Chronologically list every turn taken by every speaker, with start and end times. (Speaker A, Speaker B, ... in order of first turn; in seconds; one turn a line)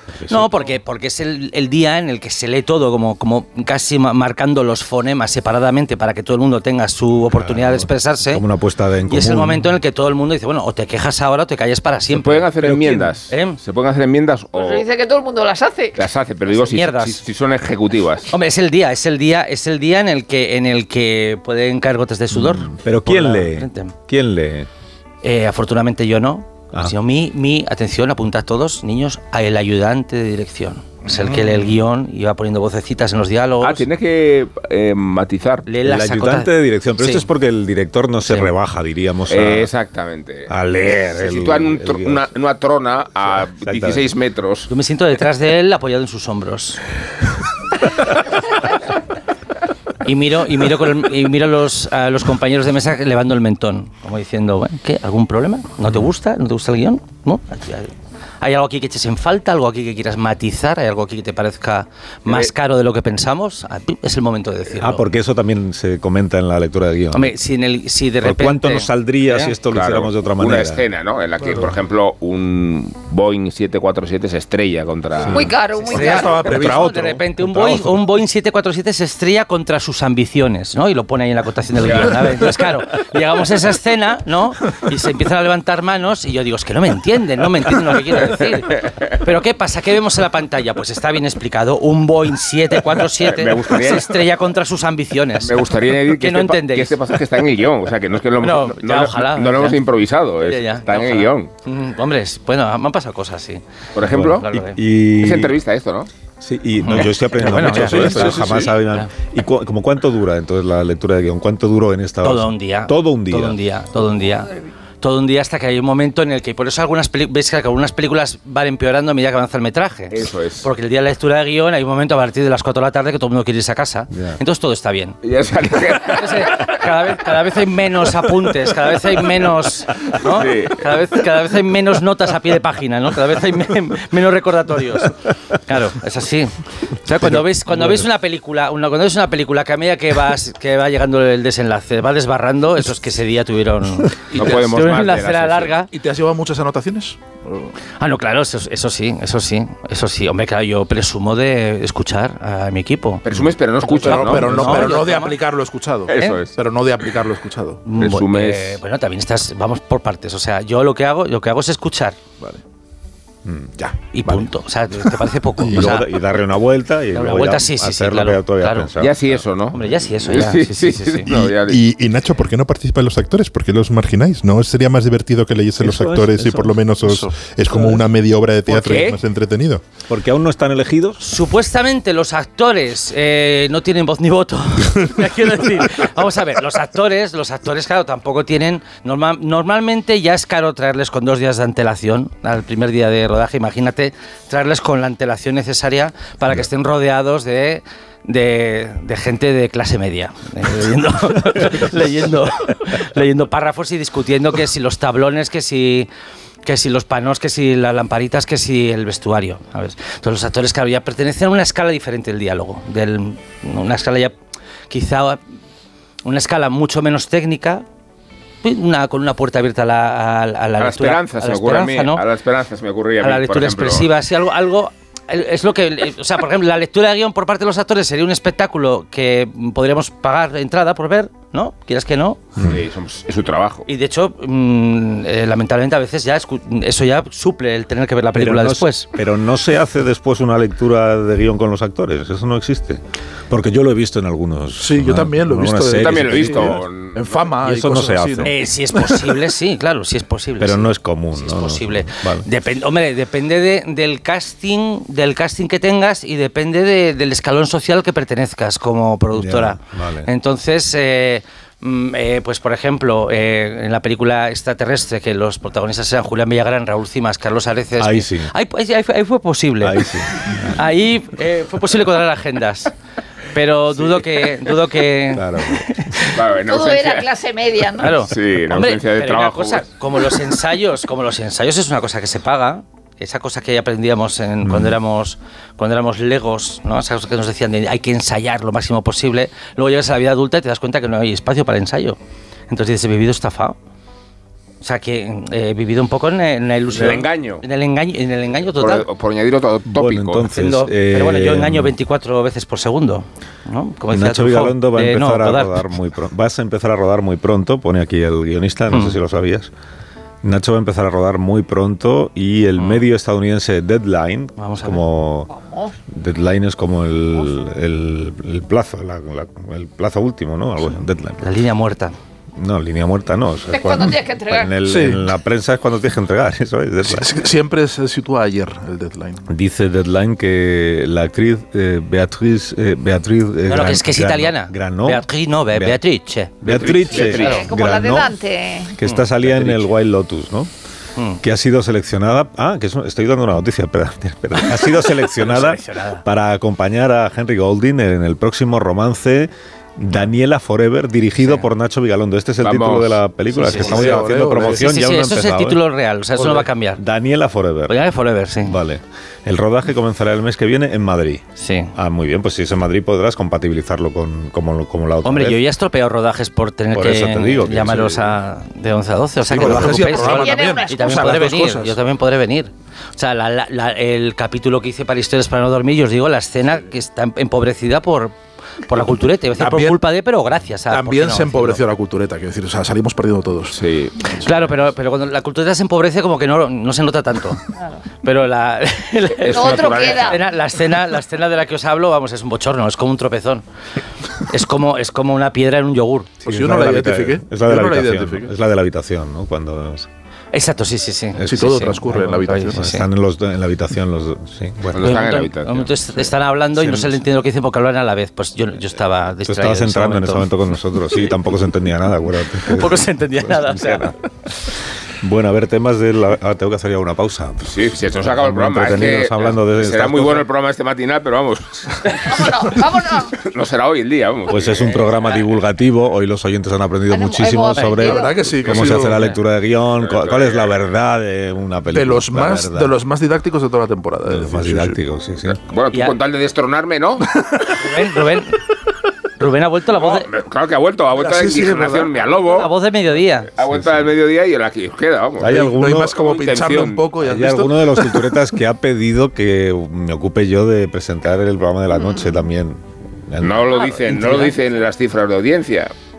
Speaker A: 0.1-0.6
Speaker B: 0.3-8.4
Speaker A: 7.3-9.7
Speaker B: 9.1-13.6
Speaker C: 12.1-14.8
Speaker D: 14.5-16.0
Speaker C: 15.9-18.3
Speaker B: 16.6-17.2
Speaker B: 18.3-23.9
Speaker A: 22.3-24.7
Speaker B: 25.2-33.8
Speaker C: 33.6-35.6
Speaker B: 35.6-37.2
Speaker A: 35.8-39.7
Speaker B: 38.2-38.5
Speaker C: 39.3-44.7
Speaker A: 40.5-42.3
Speaker A: 43.6-44.0
Speaker B: 44.7-46.8
Speaker B: 50.0-65.0
Speaker A: 64.8-67.3
Speaker B: 67.1-69.5
Speaker A: 68.2-70.8
Speaker C: 69.7-75.5
Speaker A: 75.2-75.5
Speaker D: 75.3-76.5
Speaker E: 75.8-77.0
Speaker B: 75.9-95.5
Speaker A: 76.5-78.0
Speaker C: 81.9-82.2
Speaker C: 93.2-94.3
Speaker C: 95.4-101.5
Speaker B: 96.2-97.0
Speaker B: 98.4-99.8
Speaker B: 100.5-103.6
Speaker C: 103.9-104.4
Speaker A: 104.0-105.6
Speaker B: 104.2-104.8
Speaker C: 105.2-106.1
Speaker A: 106.4-113.6
Speaker B: 106.8-109.1
Speaker E: 107.5-108.7
Speaker B: 112.2-114.5
Speaker B: 115.0-125.2
Speaker C: 120.1-120.7
Speaker A: 124.1-124.4
Speaker C: 125.2-126.6
Speaker B: 126.0-136.5
Speaker C: 130.2-130.8
Speaker B: 137.0-145.9
Speaker E: 144.3-144.9
Speaker C: 144.3-145.8
Speaker E: 145.9-147.7
Speaker B: 148.0-153.2
Speaker C: 153.2-155.0
Speaker B: 153.8-155.4
Speaker E: 153.8-157.8
Speaker C: 156.1-156.5
Speaker B: 157.8-162.2
Speaker C: 157.9-158.8
Speaker A: 163.4-163.9
Speaker B: 164.1-166.2
Speaker A: 165.6-169.4
Speaker B: 167.1-168.9
Speaker C: 169.0-171.8
Speaker B: 169.7-171.3
Speaker F: 171.3-179.8
Speaker A: 175.8-176.8
Speaker C: 178.7-179.2
Speaker A: 180.1-181.2
Speaker B: 181.2-206.1
Speaker B: 206.6-214.3
Speaker B: 214.9-215.4
Speaker B: 216.2-217.8
Speaker B: 218.6-222.2
Speaker C: 220.8-224.1
Speaker B: 223.2-232.4
Speaker C: 232.6-233.8
Speaker B: 233.9-239.1
Speaker A: 238.3-246.8
Speaker E: 244.8-249.3
Speaker C: 245.9-247.5
Speaker A: 247.6-248.5
Speaker B: 248.4-270.0
Speaker A: 250.6-252.4
Speaker A: 259.3-260.3
Speaker A: 268.0-268.5
Speaker A: 269.8-270.7
Speaker B: 270.7-272.9
Speaker B: 273.5-276.3
Speaker A: 275.3-276.0
Speaker C: 276.3-277.3
Speaker D: 276.7-278.2
Speaker B: 278.0-292.2
Speaker C: 278.2-279.9
Speaker A: 284.6-285.0
Speaker B: 292.7-293.8
Speaker B: 294.8-299.1
Speaker C: 296.9-297.6
Speaker C: 298.8-300.5
Speaker A: 299.9-301.9
Speaker B: 300.5-305.8
Speaker A: 304.1-309.7
Speaker B: 308.9-309.2
Speaker A: 310.4-315.5
Speaker B: 314.6-315.0
Speaker D: 315.5-315.9
Speaker A: 316.1-321.4
Speaker B: 321.4-322.1
Speaker A: 322.6-327.4
Speaker D: 323.7-324.7
Speaker E: 324.8-325.3
Speaker E: 327.0-329.4
Speaker A: 329.5-336.0
Speaker B: 333.7-337.6
Speaker A: 336.6-338.3
Speaker C: 336.6-337.6
Speaker D: 337.3-338.9
Speaker A: 338.9-340.7
Speaker B: 339.0-339.9
Speaker A: 341.4-355.8
Speaker B: 344.7-346.2
Speaker C: 352.6-353.2
Speaker B: 353.5-357.0
Speaker E: 353.7-354.9
Speaker A: 357.0-358.0
Speaker B: 357.9-358.8
Speaker A: 358.6-361.4
Speaker B: 361.6-361.9
Speaker A: 361.9-365.6
Speaker B: 365.2-378.3
Speaker A: 366.9-368.3
Speaker E: 369.4-372.0
Speaker A: 369.6-370.0
Speaker D: 370.0-371.1
Speaker B: 378.9-381.8
Speaker E: 379.6-380.0
Speaker E: 380.9-383.8
Speaker C: 383.7-384.3
Speaker B: 384.4-387.6
Speaker B: 388.2-393.6
Speaker C: 389.4-390.4
Speaker D: 389.5-390.4
Speaker B: 394.5-396.3
Speaker E: 396.4-398.5
Speaker A: 396.4-400.1
Speaker B: 400.5-403.1
Speaker A: 401.4-401.9
Speaker E: 401.5-402.9
Speaker A: 402.7-405.2
Speaker C: 404.9-405.9
Speaker B: 405.0-410.5
Speaker A: 406.8-407.2
Speaker A: 409.4-414.1
Speaker B: 412.7-414.1
Speaker A: 415.2-420.4
Speaker C: 417.6-422.1
Speaker D: 422.2-423.3
Speaker C: 423.4-425.1
Speaker A: 424.5-432.9
Speaker D: 427.1-428.5
Speaker E: 428.0-429.2
Speaker B: 428.9-429.4
Speaker C: 430.0-430.7
Speaker E: 431.9-435.0
Speaker A: 434.3-435.6
Speaker C: 435.5-437.3
Speaker B: 437.8-438.6
Speaker B: 439.4-440.3
Speaker C: 439.9-442.7
Speaker E: 441.2-442.1
Speaker B: 442.4-443.5
Speaker C: 443.6-447.1
Speaker A: 445.4-446.1
Speaker E: 445.5-448.2
Speaker A: 447.2-454.5
Speaker C: 453.4-455.9